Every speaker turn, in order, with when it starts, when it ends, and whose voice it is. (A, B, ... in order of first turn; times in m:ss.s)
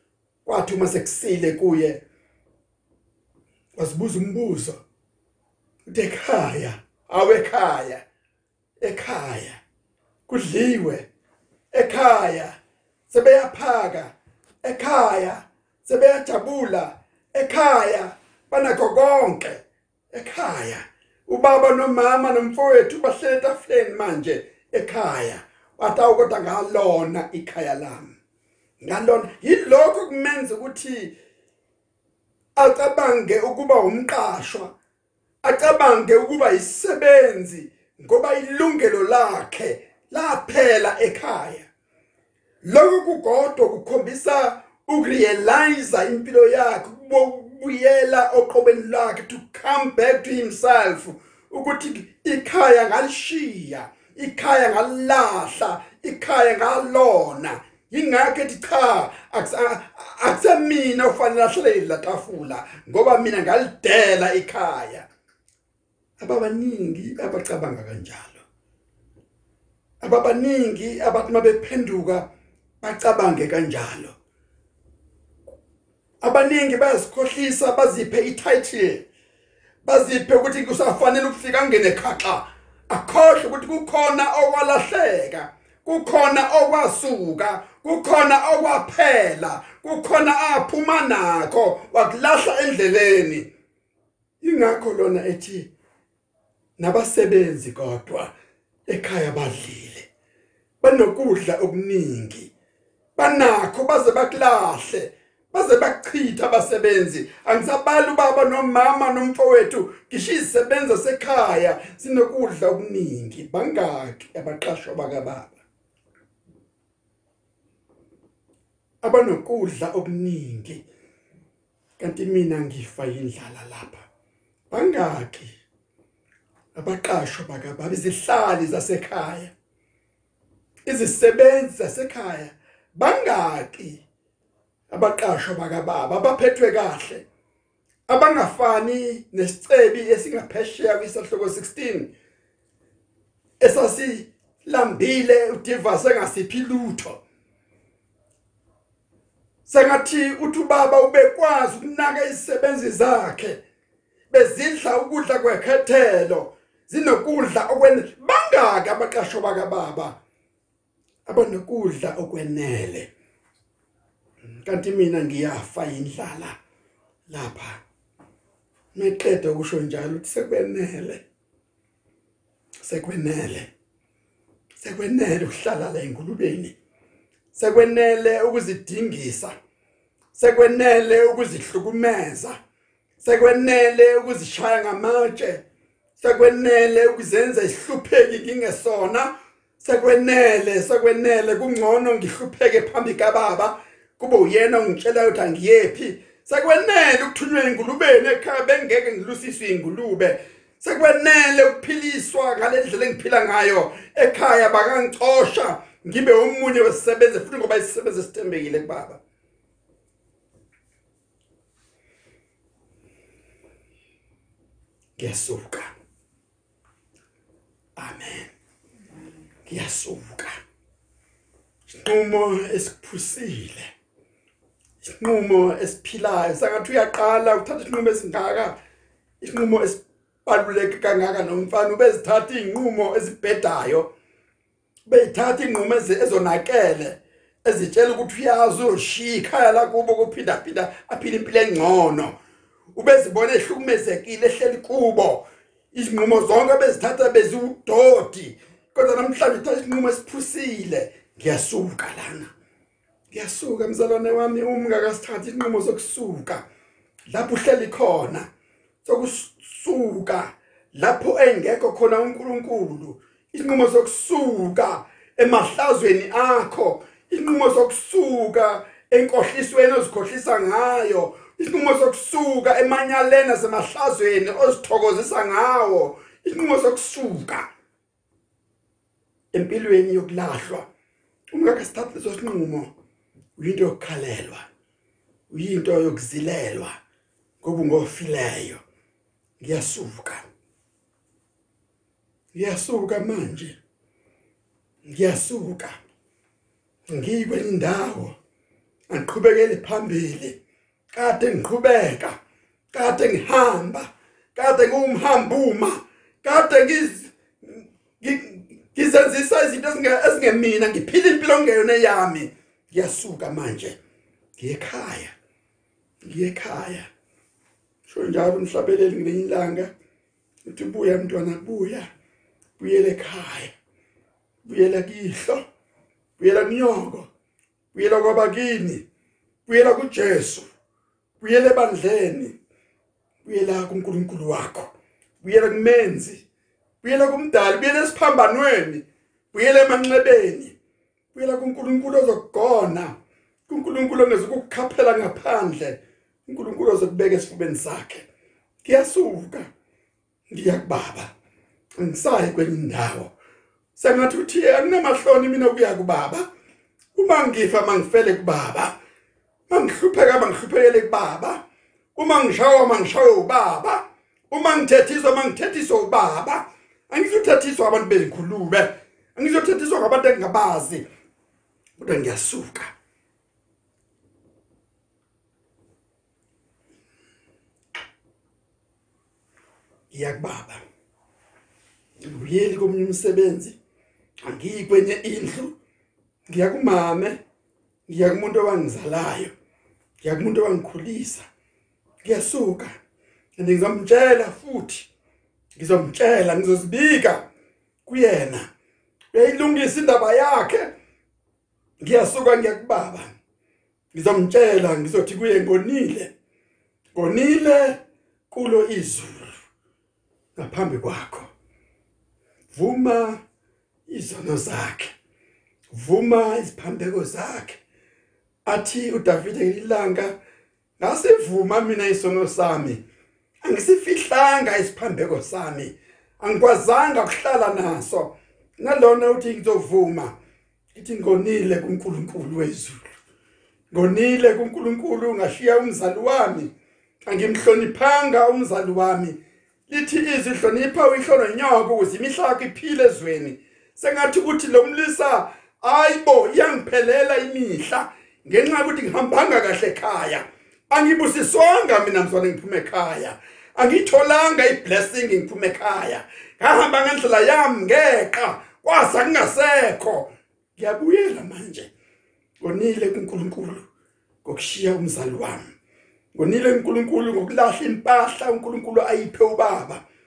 0:00.4-0:02.0 A
0:03.8-0:04.8 A
0:05.9-0:08.0 A
0:08.8-0:09.6 A
0:10.3-0:11.1 A
0:11.7-0:12.6 A
0:13.1-0:14.1 A
0:14.6-0:28.2 A
0:28.8-0:31.1 A
0:32.6-0:34.7 A
0:35.4-0:41.7 A
0:42.6-1:05.1 A
1:06.2-1:08.4 A
1:10.0-1:12.3 A
1:12.8-1:14.2 A
1:16.2-1:19.0 A
1:19.8-1:33.5 A
1:34.4-1:35.7 A
1:36.8-1:38.3 A
1:38.9-1:40.1 A
1:40.8-1:42.5 A
1:43.2-1:55.6 A
1:59.0-2:00.8 A
2:02.0-2:04.0 A
2:04.7-2:05.6 A
2:06.7-2:09.5 A
2:10.8-2:14.0 A
2:14.9-2:17.2 A
2:18.1-2:22.1 A
2:23.6-2:27.2 A
2:29.6-2:33.6 A
2:34.3-2:40.2 A
2:41.2-2:43.1 A
2:44.6-2:46.5 A
2:47.3-2:47.8 A
2:48.9-2:51.2 A
2:52.8-2:53.7 A
2:54.8-2:56.7 A
2:57.5-2:59.5 A
3:00.3-3:02.6 A
3:03.2-3:05.6 A
3:06.2-3:29.2 A
3:35.2-3:35.9 A
3:38.0-3:38.5 A
3:39.6-3:40.6 A
3:41.9-3:43.9 A
3:45.0-3:48.8 A
3:49.4-3:54.1 A
3:55.0-4:02.3 A
4:02.9-4:12.5 A
4:13.3-4:16.6 A
4:17.3-4:18.5 A
4:19.0-4:37.7 A
4:39.5-4:40.9 A
4:41.5-4:42.9 A
4:43.6-4:44.6 A
4:45.5-4:47.0 A
4:47.6-4:48.8 A
4:49.6-4:50.4 A
4:52.5-4:53.8 A
4:55.0-4:56.0 A
4:57.1-4:58.4 A
4:59.1-5:00.6 A
5:01.1-5:02.3 A
5:02.9-5:14.0 A
5:14.6-5:15.3 A
5:16.2-5:17.1 A
5:18.0-5:19.9 A
5:20.6-5:22.1 A
5:22.8-5:23.7 A
5:24.6-5:25.6 A
5:26.4-5:27.3 A
5:27.9-5:29.0 A
5:29.7-5:30.7 A
5:31.4-5:32.6 A
5:33.4-5:36.4 A
5:37.0-5:40.7 A
5:41.3-5:43.1 A
5:43.7-5:48.3 A
5:48.8-5:49.7 A
5:50.5-5:51.3 A
5:52.0-5:53.3 A
5:54.0-5:56.5 A
5:57.1-5:58.9 A
5:59.7-6:01.6 A
6:02.2-6:11.0 A
6:12.0-6:12.9 A
6:20.1-6:20.8 A
6:22.2-6:23.8 A
6:24.4-6:25.8 A
6:26.5-6:27.4 A
6:28.1-6:29.5 A
6:30.2-6:31.4 A
6:32.2-6:33.0 A
6:33.6-6:35.1 A
6:35.8-6:37.4 A
6:38.0-6:38.7 A
6:39.3-6:40.9 A
6:42.0-6:43.3 A
6:44.1-6:46.3 A
6:47.1-6:49.6 A
6:50.6-6:51.5 A
6:52.7-6:53.4 A
6:54.1-6:55.1 A
6:55.9-6:57.8 A
6:58.6-7:00.3 A
7:01.0-7:03.0 A
7:03.6-7:10.3 A
7:10.9-7:13.0 A
7:13.9-7:16.7 A
7:17.2-7:19.4 A
7:19.9-7:41.9 A
7:42.6-7:43.8 A
7:44.4-7:45.7 A
7:46.3-7:50.0 A